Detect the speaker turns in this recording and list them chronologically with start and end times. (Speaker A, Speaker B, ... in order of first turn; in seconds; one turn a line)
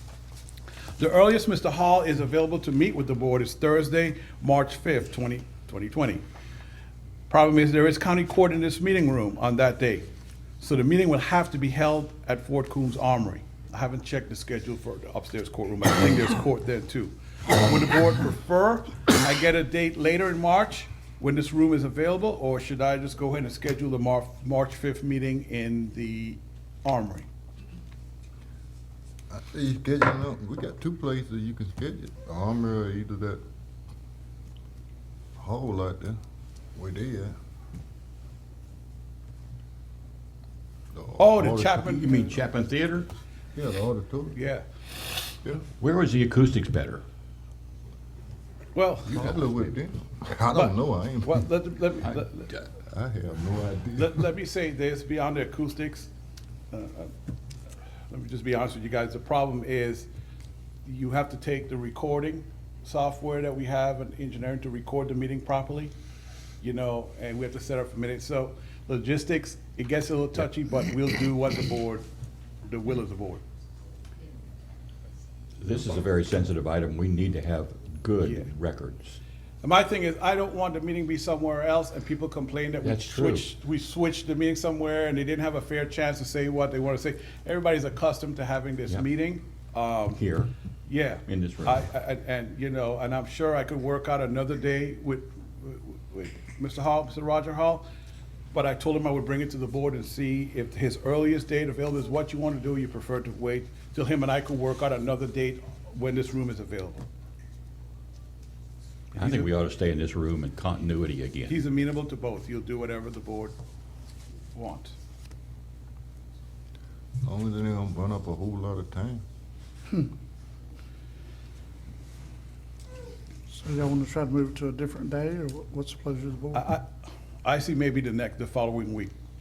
Speaker A: 1.0-6.2
Speaker A: 7.3-10.1
Speaker A: 10.6-27.3
Speaker B: 29.3-33.4
Speaker B: 35.4-36.2
Speaker B: 36.8-37.3
Speaker B: 40.9-41.8
Speaker A: 41.2-42.3
Speaker C: 41.5-43.1
Speaker B: 43.5-44.4
Speaker A: 44.3-44.6
Speaker C: 45.8-47.0
Speaker A: 48.7-49.3
Speaker B: 49.0-51.5
Speaker A: 50.5-52.5
Speaker B: 52.8-54.3
Speaker A: 54.0-56.1
Speaker A: 56.7-57.1
Speaker A: 58.1-60.1
Speaker A: 60.8-65.9
Speaker A: 66.6-72.0
Speaker A: 72.6-73.4
Speaker C: 75.6-79.2
Speaker A: 78.2-78.5
Speaker A: 79.6-90.2
Speaker C: 82.8-83.5
Speaker C: 90.2-90.5
Speaker A: 90.9-97.9
Speaker C: 91.2-91.8
Speaker A: 98.5-107.1
Speaker A: 109.1-109.5
Speaker C: 109.2-111.6
Speaker A: 111.5-113.5
Speaker A: 114.5-114.9
Speaker B: 117.2-119.2
Speaker D: 123.5-126.7
Speaker A: 126.5-126.8
Speaker A: 127.4-129.1